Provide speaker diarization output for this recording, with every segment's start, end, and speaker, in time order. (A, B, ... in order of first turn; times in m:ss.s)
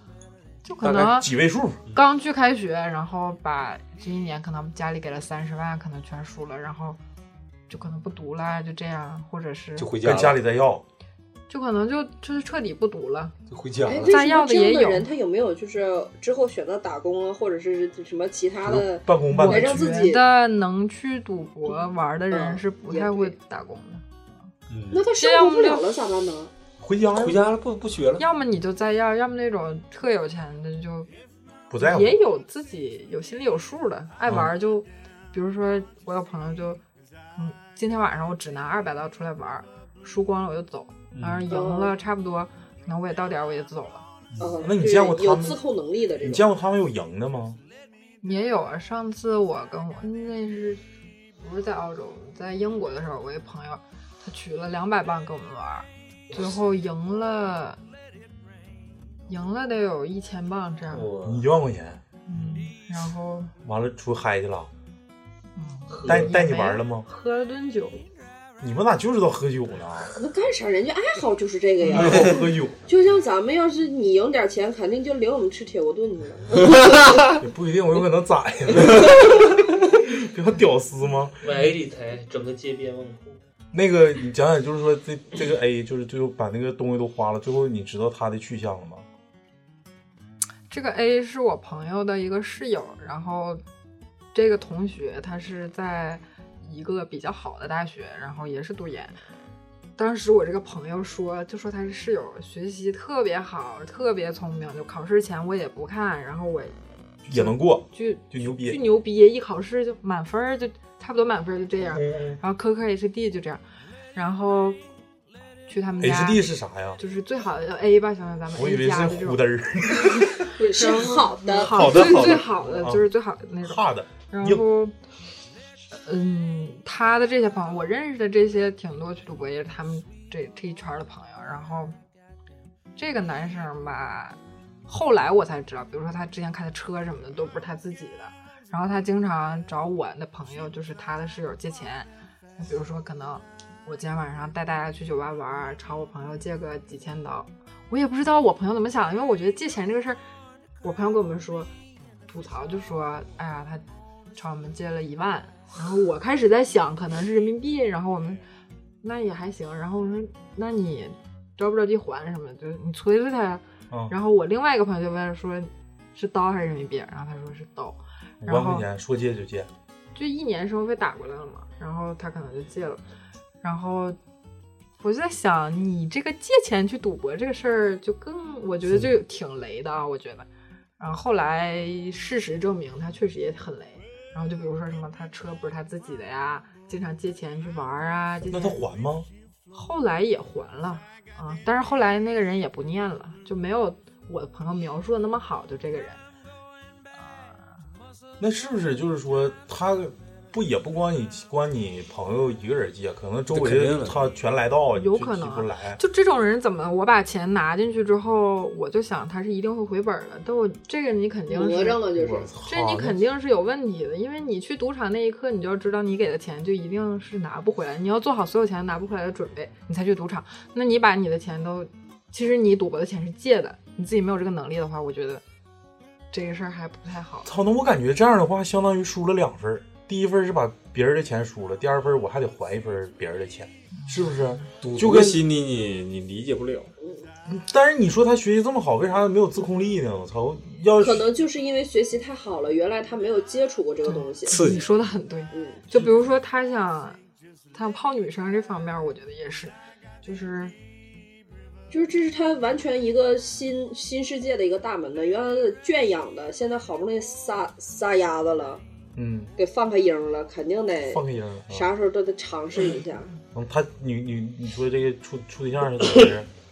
0:00.6-0:01.3 A
0:00.8-0:01.8 B
0:01.9-0:07.0 A
0:07.7-0:09.9 A
0:09.8-0:10.4 C
0:10.0-0:10.8 B
0:11.5-0:13.3 A
0:13.5-0:14.2 C
0:13.8-0:20.2 D
0:14.1-0:15.1 A
0:18.6-0:19.9 B
0:19.3-0:24.0 A
0:22.3-0:23.3 D
0:24.7-0:25.0 C
0:24.9-0:26.5 D
0:25.1-0:25.9 A
0:26.8-0:27.4 B
0:27.1-0:28.2 C
0:28.2-0:31.1 A
0:31.7-0:32.2 B
0:31.8-0:36.8 A
0:37.4-0:44.0 A
0:41.1-0:41.5 C
0:41.5-0:41.9 D
0:44.4-0:46.4 D
0:44.6-0:45.6 B
0:46.2-0:47.6 B
0:48.2-0:50.8 A
0:51.4-0:57.8 A
0:59.3-1:01.1 A
1:00.9-1:01.5 C
1:01.2-1:02.0 B
1:02.3-1:03.5 A
1:03.6-1:04.7 B
1:05.6-1:08.0 A
1:05.9-1:06.3 E
1:06.0-1:07.0 B
1:08.6-1:10.1 B
1:10.1-1:17.3 D
1:11.9-1:12.8 B
1:17.4-1:21.4 B
1:21.4-1:23.4 E
1:23.7-1:29.0 B
1:30.7-1:33.6 A
1:34.3-1:39.2 A
1:40.0-1:53.6 A
1:47.2-1:48.8 B
1:51.9-1:52.4 B
1:54.1-1:54.8 A
1:55.7-1:56.5 A
1:56.0-1:57.0 B
1:57.0-1:59.4 A
1:58.5-2:00.5 B
2:00.5-2:04.9 A
2:00.5-2:02.4 D
2:01.5-2:03.1 B
2:03.6-2:04.6 B
2:06.0-2:12.0 A
2:13.0-2:30.2 A
2:30.8-2:31.7 A
2:32.3-2:33.8 A
2:34.3-2:38.4 A
2:39.0-2:48.8 A
2:48.4-2:49.7 B
2:50.1-2:53.0 A
2:53.6-2:54.2 A
2:55.0-3:00.5 A
3:01.0-3:08.8 A
3:08.5-3:09.3 B
3:09.7-3:16.2 A
3:17.1-3:17.7 A
3:18.4-3:26.0 B
3:23.5-3:24.3 C
3:24.9-3:32.0 A
3:31.5-3:32.5 D
3:32.1-3:33.2 B
3:32.6-3:45.4 A
3:46.3-3:47.5 A
3:47.4-3:55.4 B
3:54.0-3:54.6 A
3:54.8-3:56.9 C
3:57.0-3:57.2 D
3:57.5-4:01.3 B
4:01.0-4:04.6 D
4:04.0-4:07.2 A
4:04.5-4:04.8 C
4:05.5-4:05.8 D
4:07.7-4:10.7 A
4:11.9-4:18.8 D
4:19.1-4:19.5 B
4:19.6-4:23.3 D
4:21.1-4:21.9 B
4:23.5-4:26.5 B